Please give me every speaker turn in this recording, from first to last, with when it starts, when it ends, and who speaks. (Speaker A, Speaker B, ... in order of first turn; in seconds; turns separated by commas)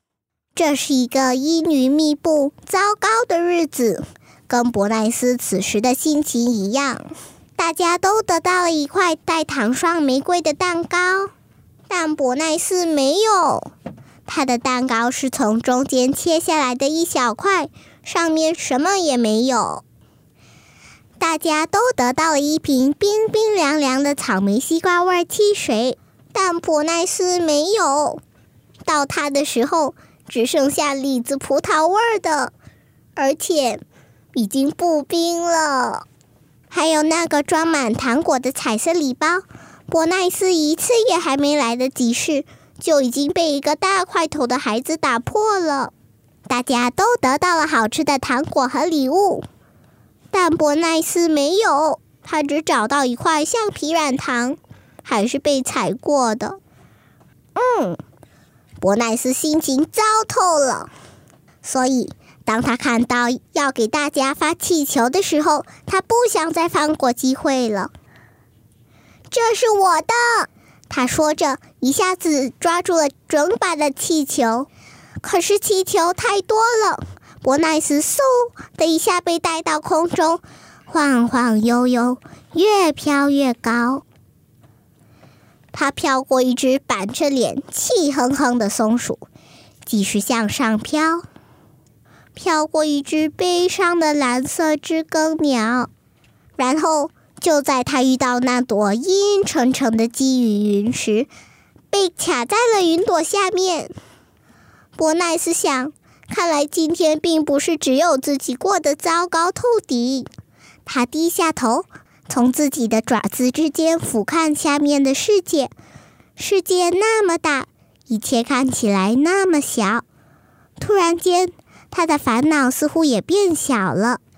Speaker A: 0.6-11.3, Speaker A: 11.9-13.7, Speaker A: 14.3-19.8, Speaker A: 21.2-28.2, Speaker A: 28.9-32.5, Speaker A: 33.2-33.8, Speaker A: 34.3-36.0, Speaker A: 36.7-45.9, Speaker A: 46.5-49.5, Speaker A: 50.3-56.6, Speaker A: 57.6-58.0, Speaker A: 58.8-60.9, Speaker A: 61.6-67.9, Speaker A: 69.3-74.7, Speaker A: 75.2-84.0, Speaker A: 85.7-89.2, Speaker A: 89.9-91.3, Speaker A: 92.4-95.9, Speaker A: 96.6-101.3, Speaker A: 101.9-103.9, Speaker A: 105.0-110.3, Speaker A: 110.9-115.7, Speaker A: 116.4-120.0, Speaker A: 120.8-124.2